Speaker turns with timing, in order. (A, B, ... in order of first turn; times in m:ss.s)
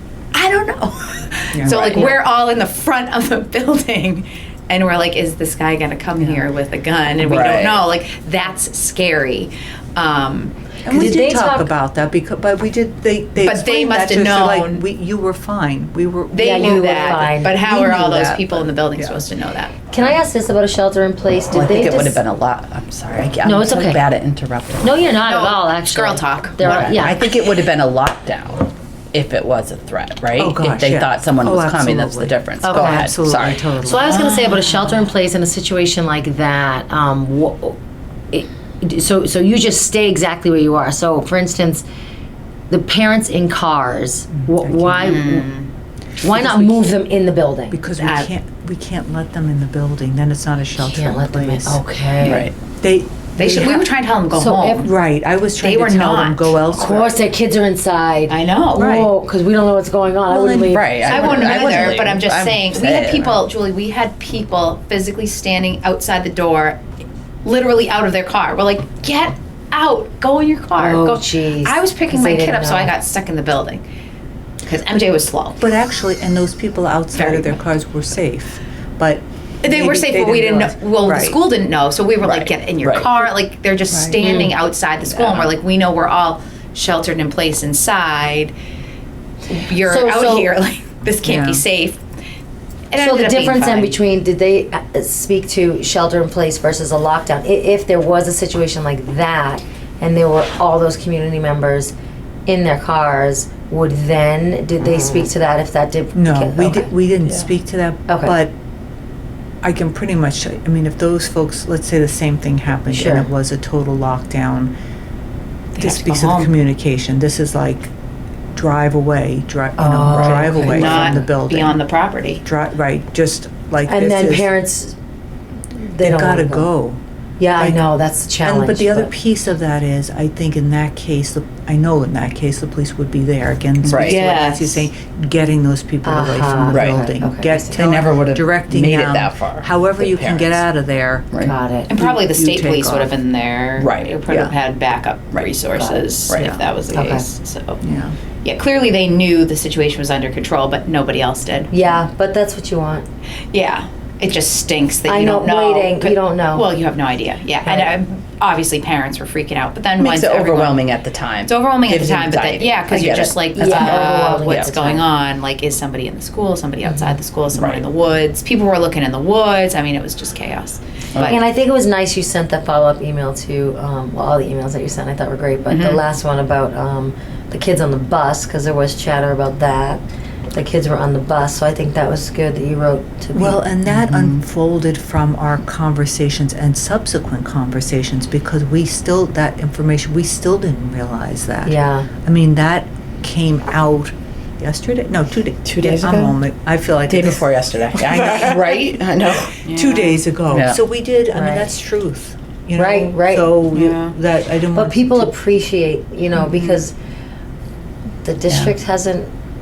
0:00.3-0:10.5 A
0:01.5-0:02.0 B
0:01.9-0:02.2 C
0:07.2-0:07.8 D
0:10.8-0:19.2 B
0:10.9-0:11.7 C
0:13.4-0:14.8 A
0:16.3-0:19.8 A
0:16.4-0:17.6 C
0:19.9-0:22.2 C
0:21.5-0:25.1 D
0:23.4-0:24.0 C
0:24.8-0:27.2 C
0:25.2-0:27.1 A
0:26.6-0:33.7 D
0:30.4-0:34.6 B
0:32.6-0:33.1 C
0:33.8-0:37.8 C
0:38.3-0:41.8 C
0:42.7-0:45.5 C
0:44.3-0:45.3 B
0:45.0-0:45.7 A
0:46.2-0:47.8 C
0:46.2-0:46.9 B
0:47.7-0:51.8 B
0:48.0-0:48.3 A
0:50.8-0:52.5 C
0:52.2-0:52.5 D
0:52.8-0:53.8 B
0:53.4-0:54.9 A
0:54.3-0:54.9 C
0:54.8-0:57.2 B
0:55.6-0:56.6 A
0:56.7-1:01.7 C
0:58.3-0:58.9 A
0:58.7-0:59.1 B
1:00.3-1:00.8 B
1:00.7-1:03.4 D
1:01.0-1:06.8 A
1:07.4-1:13.8 A
1:10.8-1:12.9 C
1:14.6-1:15.6 A
1:15.6-1:21.4 B
1:17.1-1:17.6 A
1:19.6-1:28.5 A
1:22.2-1:23.2 D
1:23.9-1:24.2 B
1:24.2-1:24.5 C
1:29.5-1:32.0 A
1:29.7-1:30.6 C
1:31.2-1:31.6 B
1:32.9-1:34.0 A
1:33.0-1:41.9 C
1:42.4-1:46.9 C
1:46.1-1:48.5 B
1:48.1-1:48.4 C
1:49.6-1:54.7 B
1:52.9-1:53.3 C
1:55.8-1:56.5 A
1:55.8-1:57.9 B
1:58.5-2:01.8 B
1:59.8-2:01.1 C
2:00.6-2:02.4 A
2:02.4-2:04.5 B
2:03.9-2:04.9 C
2:05.7-2:06.7 C
2:06.0-2:07.0 B
2:07.4-2:09.1 C
2:07.6-2:07.8 B
2:08.4-2:21.3 B
2:13.8-2:14.3 D
2:14.0-2:14.9 A
2:16.0-2:17.8 C
2:16.7-2:17.0 D
2:17.7-2:20.6 D
2:21.4-2:21.9 C
2:21.9-2:27.8 A
2:21.9-2:23.1 B
2:23.8-2:24.1 D
2:25.7-2:26.0 C
2:26.9-2:27.2 C
2:27.8-2:28.2 B
2:28.4-2:31.9 A
2:31.7-2:33.0 C
2:33.5-2:40.9 A
2:35.1-2:36.7 C
2:37.6-2:38.0 C
2:40.0-2:44.7 D
2:41.4-2:51.4 A
2:43.5-2:45.1 C
2:46.8-2:47.2 C
2:47.5-2:47.8 D
2:51.1-2:51.4 D
2:51.2-3:00.0 C
2:55.7-2:56.0 A
3:00.5-3:03.6 C
3:03.3-3:18.6 B
3:03.9-3:04.3 D
3:11.6-3:12.1 C
3:15.6-3:16.4 D
3:17.1-3:20.8 D
3:19.5-3:25.3 B
3:21.3-3:21.7 C
3:22.7-3:23.6 C
3:23.7-3:24.1 D
3:24.7-3:26.9 C
3:26.4-3:26.7 B
3:28.2-3:29.3 C